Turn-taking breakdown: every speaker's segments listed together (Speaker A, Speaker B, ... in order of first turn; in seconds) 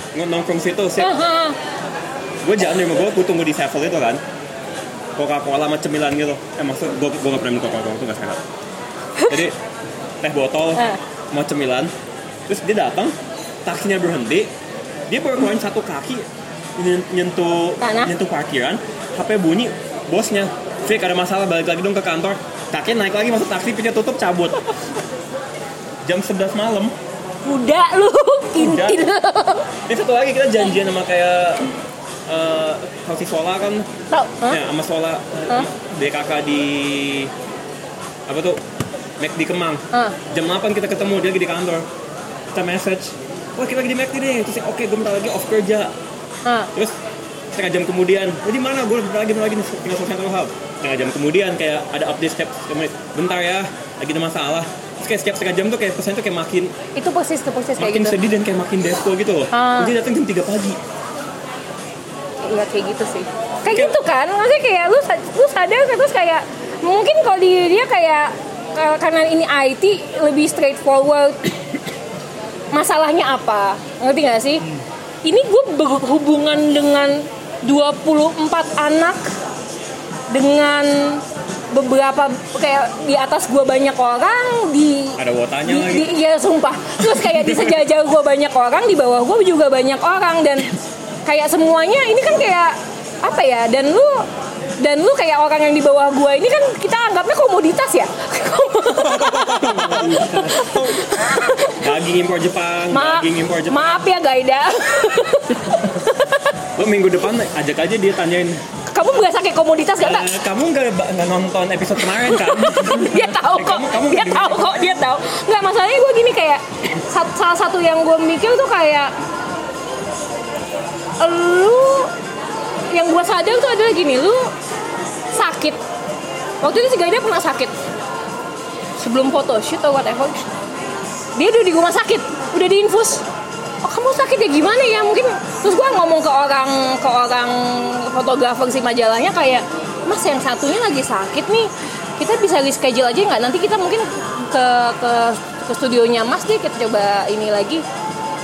Speaker A: 0.1-1.1, 2.4-4.2, 5.2-8.4, 9.3-9.6, 10.2-11.9, 12.5-13.1, 13.7-14.5, 15.1-16.3, 16.8-24.7, 26.1-26.9, 28.6-29.0, 29.9-31.7, 32.3-33.9, 34.5-37.3, 38.3-38.6, 39.2-41.9, 42.5-45.9, 47.5-56.7, 57.8-60.8, 63.7-64.0, 85.2-86.1, 87.0-87.8, 99.0-101.1, 101.7-104.0, 106.8-108.6, 110.0-115.0
Speaker B: 1.0-1.6, 17.8-18.1, 27.4-29.7, 34.1-34.6, 39.9-40.2, 46.5-46.7, 57.0-58.2, 59.5-59.9, 62.4-71.6, 72.7-74.7, 75.2-79.3, 80.3-90.7, 91.3-94.3, 94.8-101.8, 102.9-106.6, 108.9-110.4, 112.1-119.1, 121.2-122.1, 122.9-124.5, 125.3-125.8, 126.6-127.7, 129.0-130.5, 131.4-133.2, 133.8-147.8